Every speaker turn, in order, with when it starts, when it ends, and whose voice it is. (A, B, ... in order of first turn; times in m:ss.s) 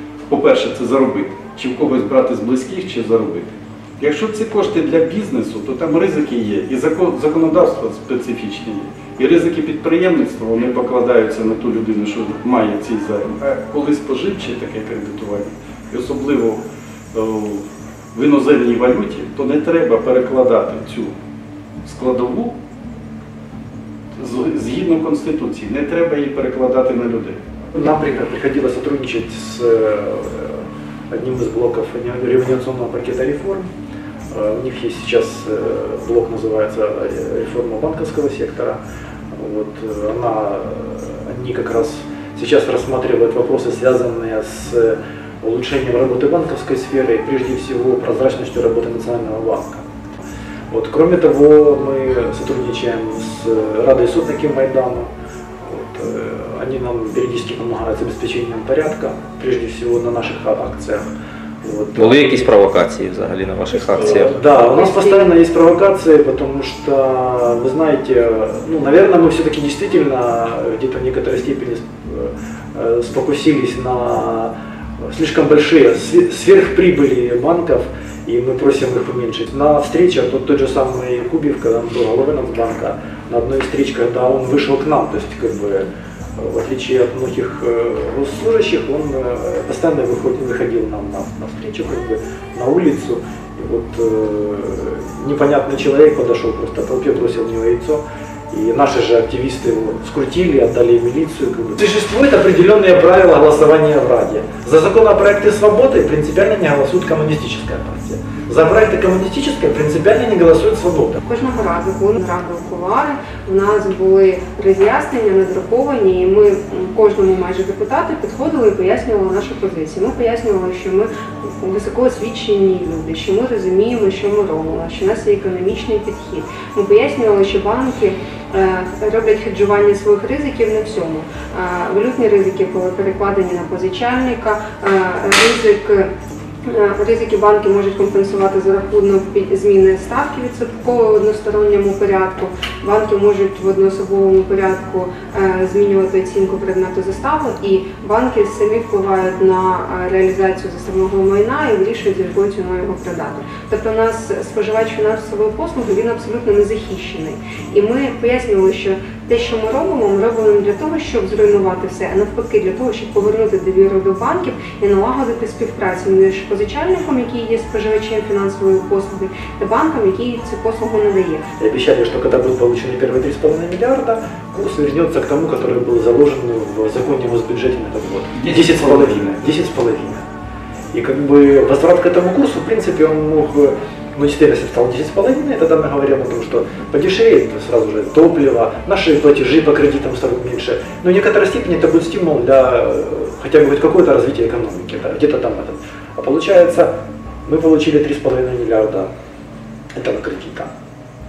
0:00.3-0:16.6 A
0:17.1-0:21.1 A
0:21.8-0:22.6 A
0:24.2-0:27.4 A
0:27.7-0:33.7 B
0:34.3-0:38.8 B
0:39.3-0:49.8 B
0:50.7-0:55.1 B
0:55.6-1:01.0 B
1:01.6-1:02.5 B
1:02.0-1:04.3 C
1:03.9-1:05.3 D
1:04.0-1:14.5 B
1:15.0-1:51.2 B
1:51.3-2:16.1 D
2:16.6-2:51.4 D
2:51.6-3:00.2 B
2:58.3-2:59.5 A
3:00.9-3:19.1 B
3:19.9-3:20.7 B